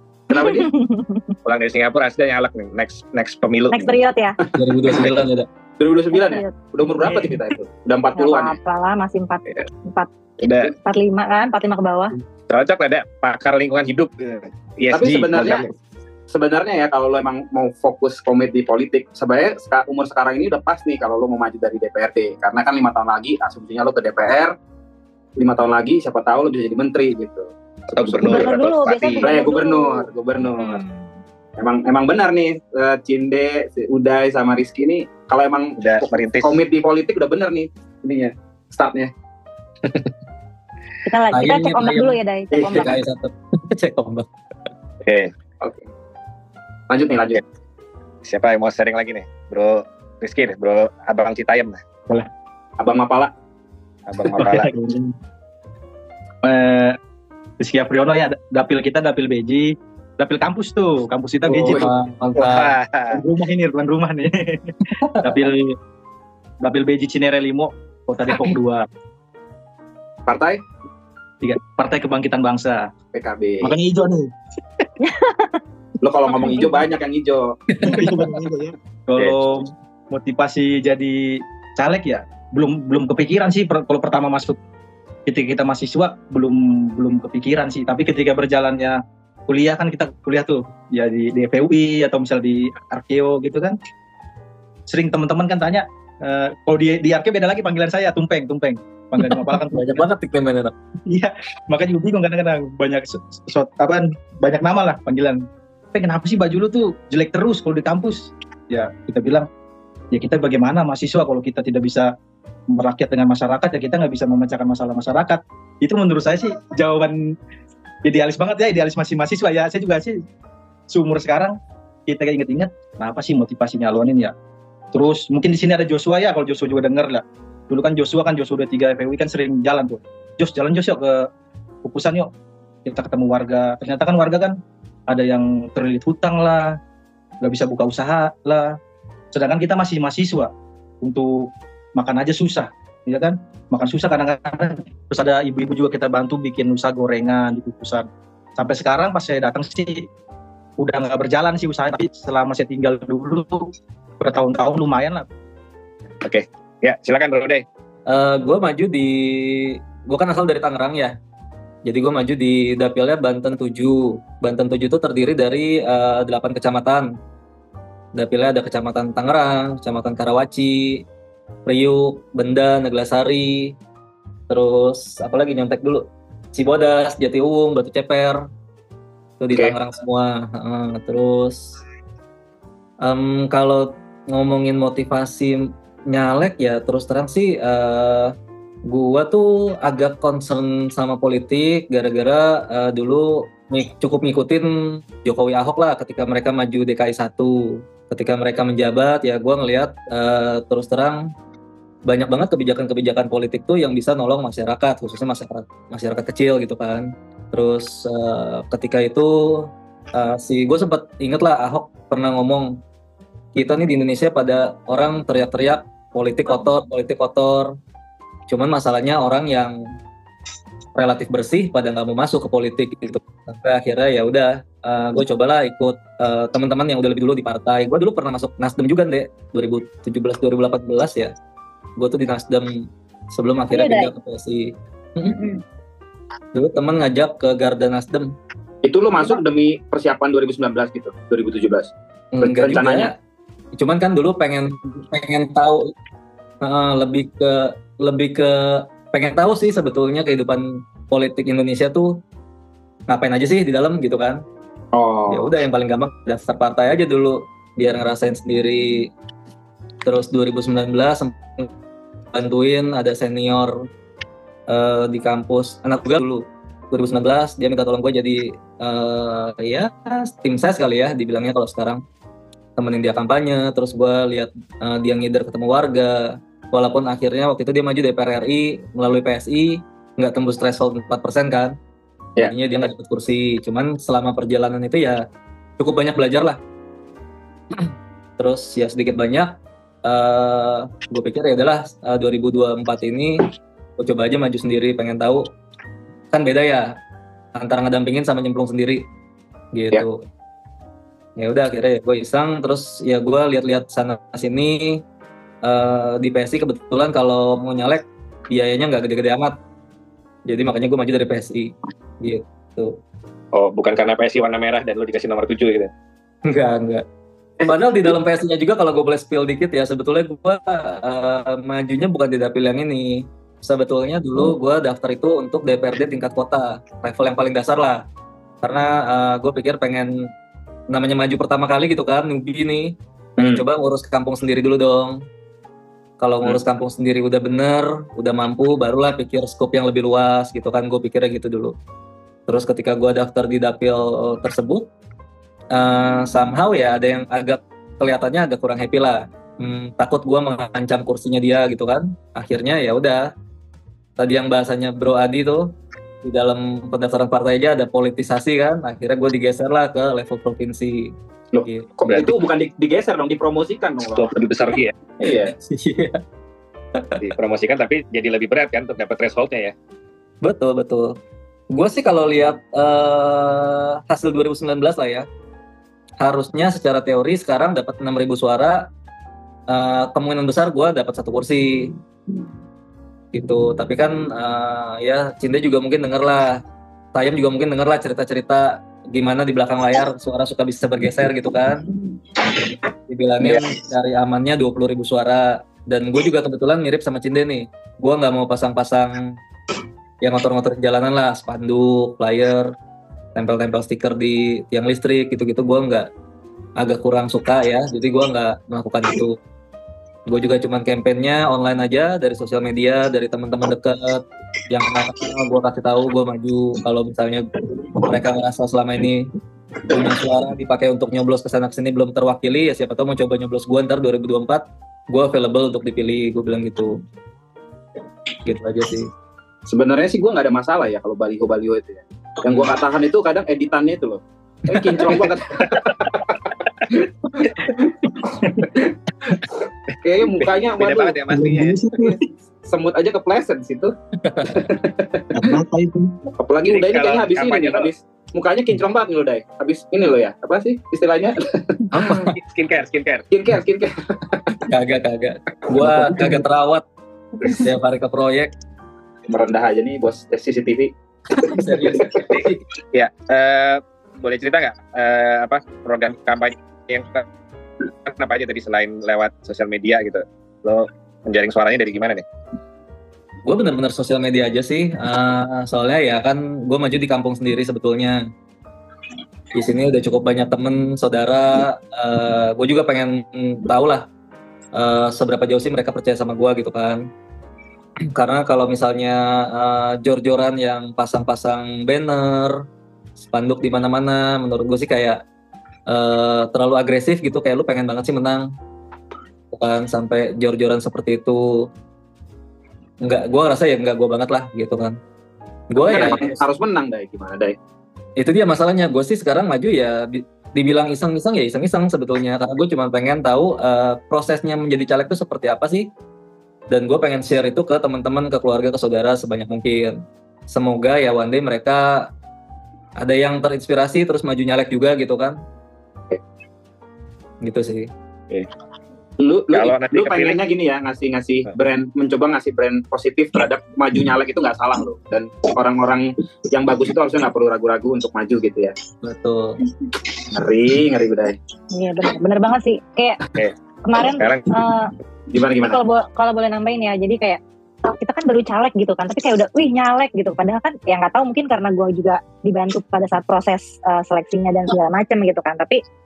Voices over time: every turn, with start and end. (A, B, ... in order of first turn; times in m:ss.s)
0:00.3-0:00.7 A
0:00.4-0:01.2 B
0:01.4-0:04.0 C
0:03.7-0:04.4 B
0:04.5-0:05.0 A
0:04.6-0:05.5 D
0:05.8-0:08.6 A
0:06.1-0:06.6 B
0:08.2-0:10.1 B
0:10.4-0:10.7 C
0:10.6-0:12.2 B
0:12.5-0:15.7 C
0:14.9-0:15.7 A
0:15.3-0:15.6 E
0:16.3-0:24.5 A
0:25.4-0:28.6 A
0:27.9-0:29.4 C
0:28.2-0:31.1 B
0:29.2-0:30.8 A
0:31.6-0:39.1 A
0:35.8-0:36.6 C
0:41.0-0:43.0 B
0:41.3-0:44.3 D
0:42.5-0:42.9 A
0:45.0-0:45.3 C
0:45.6-0:45.9 A
0:46.9-0:47.4 A
0:48.2-0:51.8 C
0:52.8-0:53.3 A
0:54.1-0:54.7 C
0:54.4-0:55.2 E
0:56.4-0:57.0 E
0:57.6-1:02.1 E
1:01.5-1:02.8 D
1:01.6-1:01.8 A
1:02.4-1:03.2 C
1:03.1-1:05.8 E
1:05.0-1:05.3 D
1:06.6-1:08.9 E
1:10.3-1:10.6 A
1:11.4-1:12.9 E
1:13.1-1:13.7 A
1:13.6-1:14.3 E
1:15.0-1:15.6 B
1:16.0-1:17.9 A
1:16.4-1:16.8 B
1:17.8-1:24.6 E
1:17.8-1:18.2 D
1:19.2-1:19.6 A
1:25.3-1:33.8 E
1:34.9-1:40.1 E
1:39.2-1:40.7 D
1:41.1-1:49.5 E
1:50.1-1:52.1 E
1:52.7-1:57.2 E
1:58.0-2:00.2 E
2:00.9-2:04.3 E
2:04.9-2:11.3 E
2:11.8-2:12.3 E
2:12.8-2:14.6 E
2:15.1-2:16.8 E
2:17.4-2:18.8 E
2:19.3-2:30.1 E
2:30.8-2:35.2 E
2:36.2-2:37.6 C
2:38.1-2:41.2 D
2:41.8-2:47.1 D
2:48.1-2:51.0 D
2:51.7-2:53.8 D
2:54.5-2:58.5 D
2:59.4-3:01.8 D
3:03.0-3:08.3 D
3:08.9-3:21.3 D
3:22.1-3:32.8 D
3:33.6-3:37.8 D
3:38.5-3:39.9 D
3:41.0-3:51.3 D
3:52.0-3:55.4 D
3:53.7-3:54.1 B
3:55.4-3:55.6 B
3:56.5-3:58.3 D
3:58.8-4:01.9 A
4:02.3-4:03.1 D
4:02.4-4:03.1 A
4:03.7-4:05.9 D
4:06.6-4:12.2 D
4:13.1-4:14.4 D
4:14.9-4:15.5 A
4:15.3-4:19.1 D
4:20.0-4:21.7 D
4:22.3-4:23.9 D
4:24.7-4:32.0 D
4:32.8-4:41.8 D
4:42.4-4:45.2 D
4:45.8-4:46.6 D
4:47.8-4:55.5 D
4:56.3-4:57.0 D
4:57.6-4:59.0 D
4:59.7-5:00.2 D
5:01.4-5:05.0 D
5:05.6-5:09.6 D
5:10.4-5:13.0 D
5:13.5-5:15.9 C
5:16.5-5:17.0 D
5:17.6-5:28.0 D
5:28.6-5:30.3 D
5:30.9-5:35.2 D
5:33.4-5:33.6 A
5:36.2-5:41.8 D
5:42.5-5:44.9 D
5:45.7-5:53.3 D
5:54.2-5:55.7 D
5:56.2-6:01.9 D
6:01.5-6:04.3 A
6:02.1-6:02.3 C
6:04.1-6:05.0 C
6:05.2-6:05.5 A
6:05.4-6:06.2 D
6:07.0-6:07.3 D
6:07.2-6:09.7 C
6:10.4-6:11.2 D
6:11.7-6:15.3 D
6:16.2-6:18.9 D
6:19.7-6:22.0 D
6:23.3-6:26.6 D
6:27.1-6:31.9 D
6:32.8-6:39.4 D
6:40.2-6:42.8 D
6:43.4-6:46.1 D
6:46.8-6:49.4 D
6:50.3-7:07.0 D
7:08.4-7:09.1 D
7:09.7-7:19.5 A
7:18.2-7:18.7 E
7:20.0-7:21.2 A
7:20.7-7:21.8 C
7:21.3-7:22.2 E
7:22.1-7:23.9 A
7:24.2-7:24.7 D
7:24.5-7:25.5 A
7:25.3-7:26.3 E
7:26.4-7:32.3 A
7:26.7-7:27.9 C
7:32.0-7:33.3 C
7:33.3-7:34.7 A
7:34.6-7:36.8 D
7:35.8-7:36.4 E
7:37.4-7:38.5 D
7:39.3-7:42.3 A
7:41.4-7:42.6 D
7:42.3-7:47.3 C
7:47.9-7:52.2 C
7:53.4-7:58.3 D
7:59.5-8:04.1 D
8:04.8-8:07.0 D
8:08.1-8:12.6 D
8:13.2-8:15.2 D
8:15.9-8:18.5 D
8:19.5-8:21.7 D
8:23.0-8:25.0 D
8:25.7-8:26.4 D
8:25.7-8:27.6 A
8:28.2-8:35.9 D
8:36.7-8:42.1 D
8:43.0-8:45.4 D
8:47.4-8:47.9 D
8:49.2-8:58.8 A
8:49.5-8:50.4 C
8:59.0-8:59.6 D
9:00.1-9:01.4 A
9:01.7-9:03.2 B
9:03.8-9:04.9 B
9:04.2-9:04.5 C
9:05.3-9:05.8 A
9:05.6-9:15.8 B